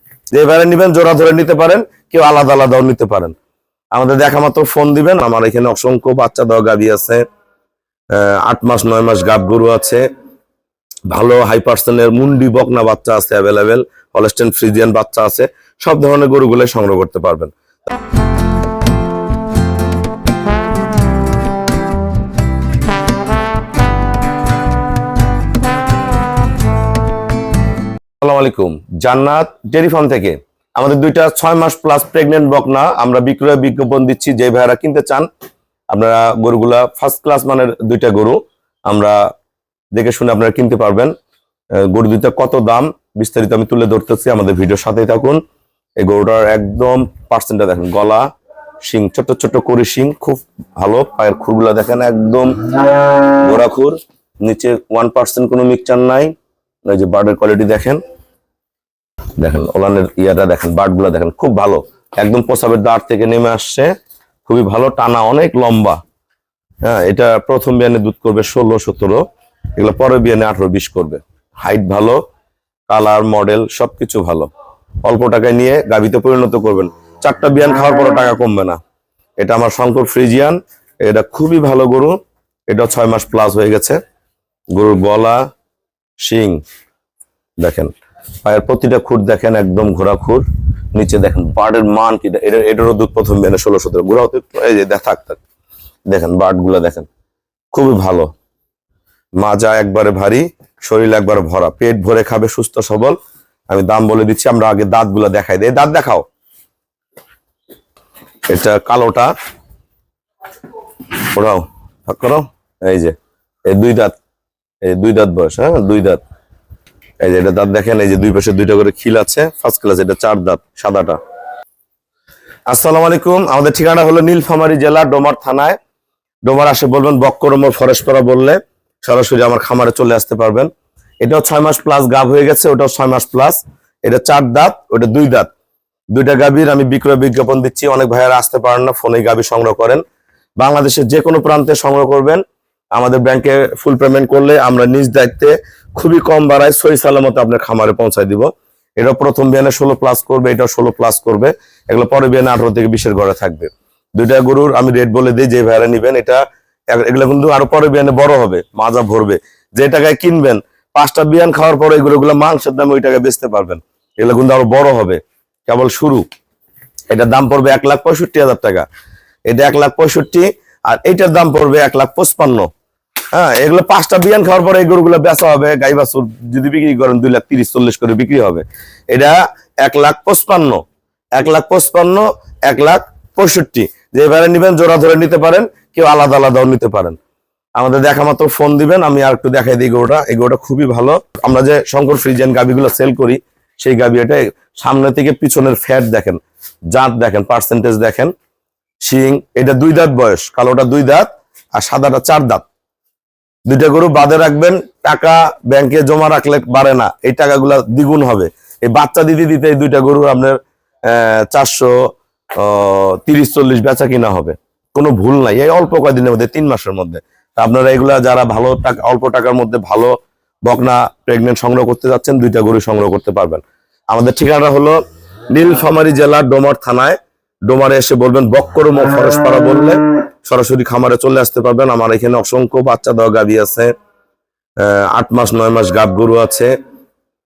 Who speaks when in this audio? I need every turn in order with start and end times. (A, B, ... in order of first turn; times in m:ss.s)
0:00.3-0:03.3 A
0:03.9-0:07.2 A
0:08.1-0:10.0 A
0:11.1-0:17.5 A
0:28.2-0:35.3 A
0:35.9-0:38.4 A
0:38.9-0:39.2 A
0:39.9-0:41.1 A
0:41.8-0:45.4 A
0:46.0-0:48.2 A
0:48.8-0:52.6 A
0:53.4-0:56.3 A
0:56.9-0:58.0 A
0:59.4-1:03.9 A
1:04.4-1:06.0 A
1:06.8-1:09.2 A
1:09.7-1:12.2 A
1:12.9-1:14.5 A
1:15.0-1:18.8 A
1:19.4-1:22.2 A
1:22.7-1:24.0 A
1:24.7-1:25.4 A
1:26.2-1:26.6 A
1:27.6-1:27.9 A
1:28.4-1:35.4 A
1:36.1-1:37.1 A
1:37.7-1:38.3 A
1:39.4-1:43.2 A
1:43.7-1:46.2 A
1:48.5-1:49.3 A
1:51.2-1:53.1 A
1:53.7-1:54.2 A
1:54.8-1:56.2 A
1:57.2-2:01.2 A
2:02.7-2:05.8 A
2:06.4-2:10.7 A
2:11.2-2:15.5 A
2:16.1-2:20.0 A
2:20.6-2:22.4 A
2:23.0-2:46.2 A
2:47.1-2:48.8 A
2:49.5-2:52.7 A
2:53.3-3:00.8 A
3:01.4-3:07.2 A
3:07.8-3:16.4 A
3:16.9-3:18.3 A
3:19.0-3:22.6 A
3:23.7-3:32.0 A
3:32.6-3:40.1 A
3:40.6-3:45.0 A
3:45.5-3:47.2 A
3:47.7-3:53.9 A
3:54.8-3:56.7 A